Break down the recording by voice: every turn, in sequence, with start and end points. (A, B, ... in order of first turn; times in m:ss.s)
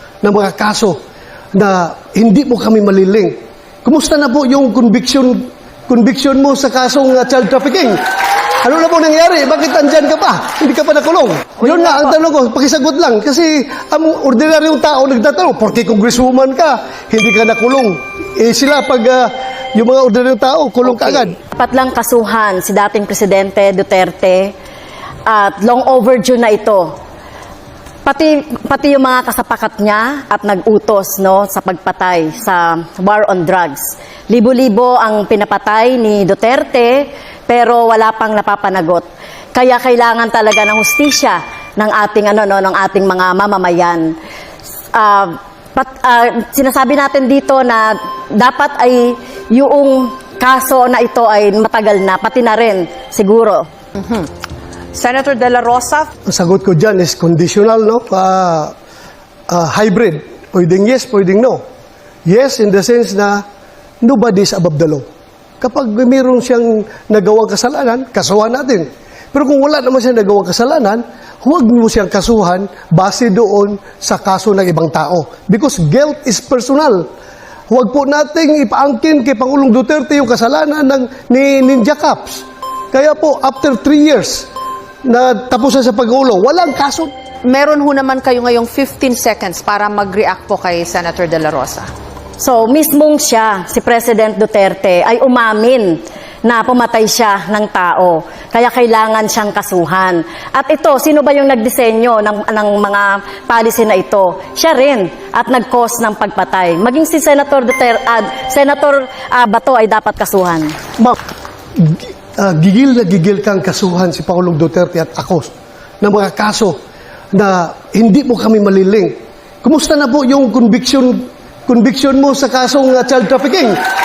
0:00.2-0:01.0 A
0:01.5-0:08.0 A
0:08.6-0:21.4 A
0:21.4-0:24.5 B
0:25.3-0:26.9 B
0:28.0-0:44.1 B
0:44.9-0:53.7 B
0:54.0-0:54.3 C
0:54.9-0:56.1 C
0:56.3-0:58.7 A
0:59.5-1:01.6 A
1:02.3-1:03.4 A
1:04.0-1:05.1 A
1:05.6-1:17.1 A
1:17.7-1:24.5 A
1:25.0-1:27.1 A
1:27.4-1:31.9 C
1:32.4-1:50.7 B
1:51.8-1:56.8 A
1:57.3-2:03.8 A